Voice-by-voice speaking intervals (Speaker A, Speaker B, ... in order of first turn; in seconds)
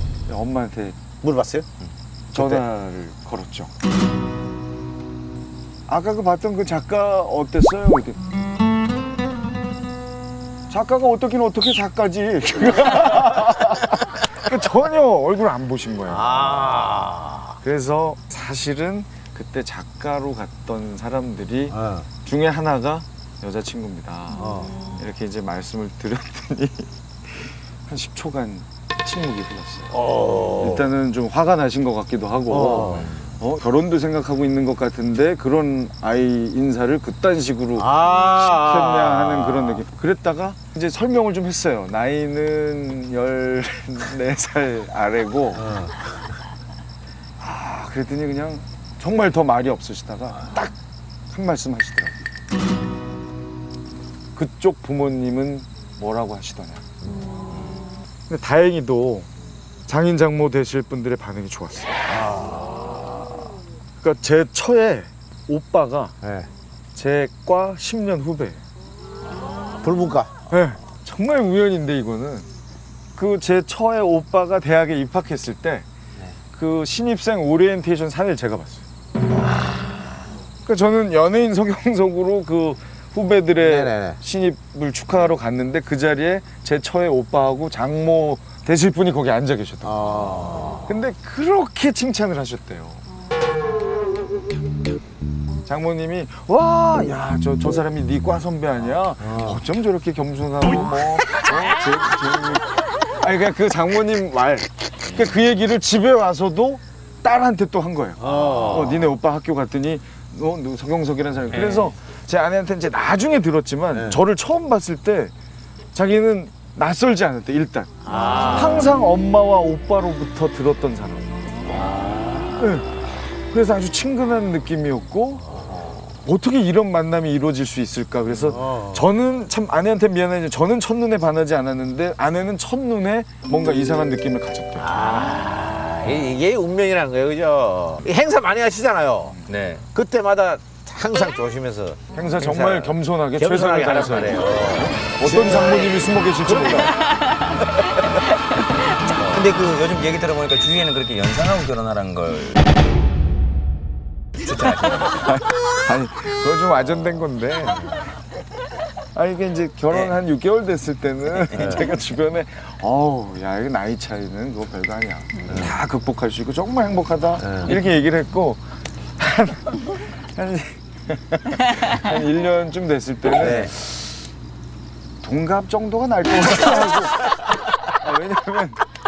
Speaker A: 0.3-1.0, 2.3-3.7, 5.9-8.2, 10.7-16.8, 17.6-30.0, 30.6-45.8, 47.4-50.7, 51.3-52.2, 54.4-56.9, 58.3-59.3, 59.9-62.0, 64.0-66.2, 67.0-68.6, 70.5-72.5, 73.2-75.9, 76.5-78.8, 80.7-90.0, 90.8-93.0, 95.7-115.3, 115.9-121.3, 122.6-135.0, 142.1-147.0, 155.2-158.1, 159.1-168.6, 169.2-174.2, 175.2-178.8
Speaker B: 1.2-1.7, 2.4-2.6, 16.1-17.6, 21.7-22.1, 24.4-24.8, 29.9-30.9, 32.5-33.2, 37.8-39.8, 45.5-46.3, 57.1-57.5, 62.1-62.8, 66.2-66.5, 69.8-70.3, 83.6-84.2, 89.8-90.8, 99.2-99.6, 108.2-109.1, 113.9-114.2, 118.1-119.0, 121.7-122.6, 128.5-129.1, 134.8-139.3, 139.9-147.9, 149.1-149.5, 165.5-165.7, 167.4-167.7, 173.3-173.7
Speaker C: 111.5-111.9, 139.5-139.8, 149.1-152.7, 154.4-155.2